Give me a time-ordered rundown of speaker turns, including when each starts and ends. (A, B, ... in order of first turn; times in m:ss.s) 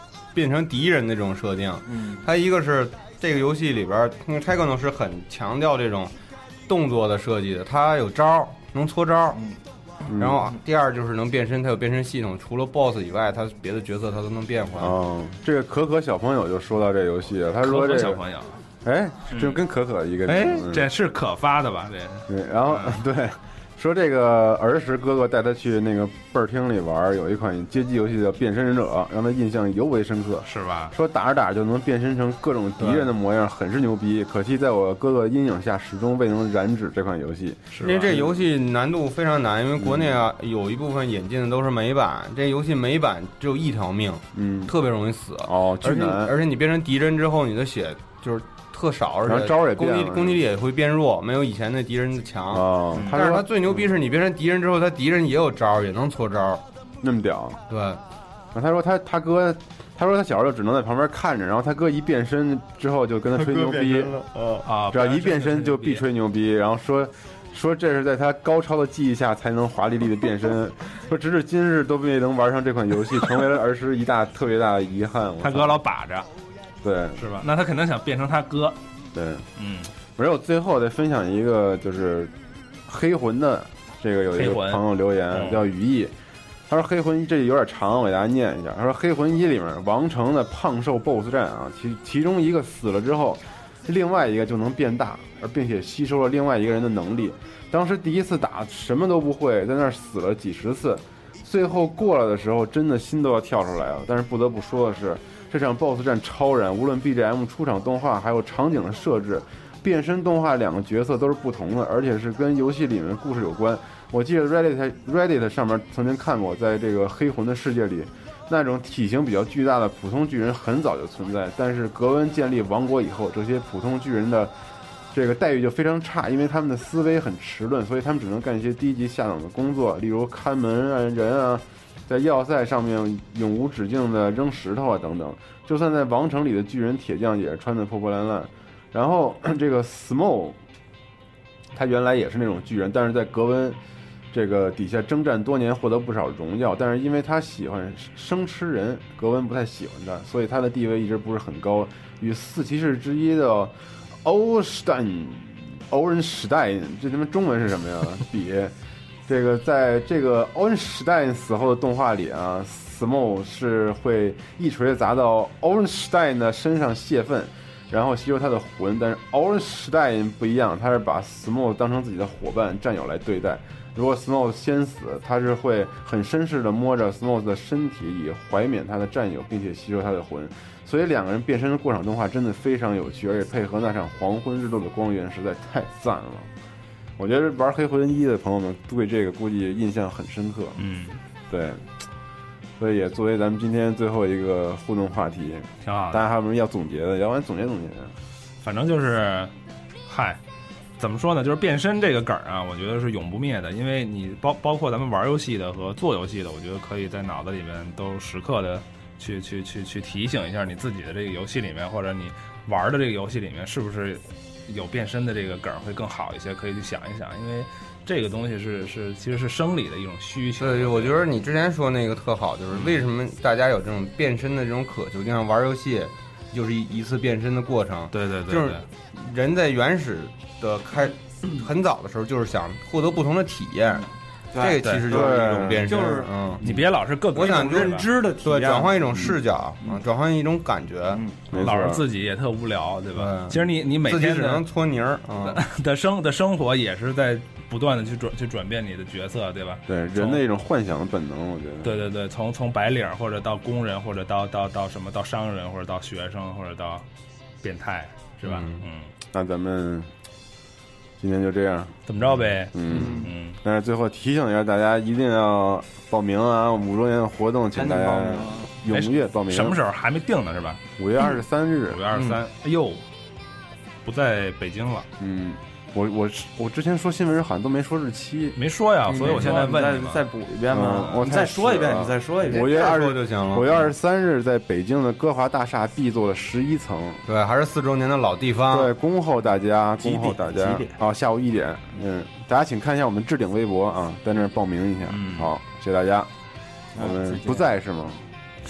0:00.3-0:06.1 A
0:01.9-0:02.3 B
0:06.7-0:09.4 A
0:09.3-0:09.6 B
0:10.1-0:10.5 C
0:10.2-0:15.0 A
0:14.8-0:18.2 C
0:17.6-0:18.6 D
0:18.8-0:20.9 C
0:19.3-0:19.6 D
0:20.3-0:20.6 A
0:20.6-0:23.0 D
0:22.3-0:38.4 C
0:30.4-0:30.9 D
0:37.7-0:38.1 D
0:37.8-0:56.6 A
0:39.8-0:40.2 C
0:44.3-0:44.7 C
0:45.4-0:46.3 C
0:49.2-0:50.4 C
0:52.5-0:53.8 C
0:57.0-0:57.6 C
0:57.7-0:58.0 A
0:58.5-1:04.2 C
1:03.4-1:03.8 A
1:03.8-1:04.2 B
1:04.3-1:04.6 A
1:04.6-1:06.1 D
1:04.8-1:15.8 C
1:15.4-1:16.3 D
1:16.8-1:17.4 C
1:17.2-1:18.8 D
1:19.2-1:19.4 C
1:19.6-1:19.9 D
1:20.1-1:22.3 C
1:22.9-1:26.1 C
1:24.4-1:25.7 D
1:26.7-2:04.5 C
2:05.1-2:20.6 C
2:21.7-2:23.8 C
2:24.3-2:38.7 C
2:39.3-3:06.5 C
3:07.2-3:10.8 C
3:10.8-3:11.2 D
3:11.5-3:11.8 C
3:12.8-3:18.1 C
3:15.8-3:16.3 D
3:18.6-3:19.5 D
3:20.1-3:20.4 D
3:21.0-3:41.2 D
3:40.6-3:54.1 A
3:42.7-3:43.0 D
3:48.1-3:48.8 D
3:54.5-3:59.3 B
3:54.6-3:56.6 A
3:55.1-3:56.1 C
3:56.6-3:58.1 D
3:57.3-4:01.2 A
4:01.1-4:01.4 B
4:01.5-4:02.0 C
4:01.6-4:04.6 D
4:03.2-4:05.6 A
4:05.4-4:10.4 D
4:09.9-4:12.0 C
4:11.8-4:17.0 D
4:17.6-4:19.1 D
4:18.4-4:18.8 A
4:19.3-4:20.1 C
4:21.2-4:22.0 C
4:22.1-4:23.6 D
4:22.7-4:29.8 C
4:22.9-4:23.3 B
4:27.7-4:28.7 B
4:28.9-4:30.8 D
4:31.0-4:32.0 C
4:31.9-4:33.0 D
4:34.0-4:35.1 D
4:35.2-4:38.6 C
4:38.6-4:40.2 D
4:39.1-4:43.1 B
4:39.2-4:39.5 C
4:40.7-4:47.2 C
4:42.5-4:43.7 A
4:47.3-4:48.9 A
4:48.7-4:56.3 C
4:50.0-4:50.9 B
4:55.1-4:55.5 D
4:57.0-4:58.2 C
4:57.0-4:57.7 B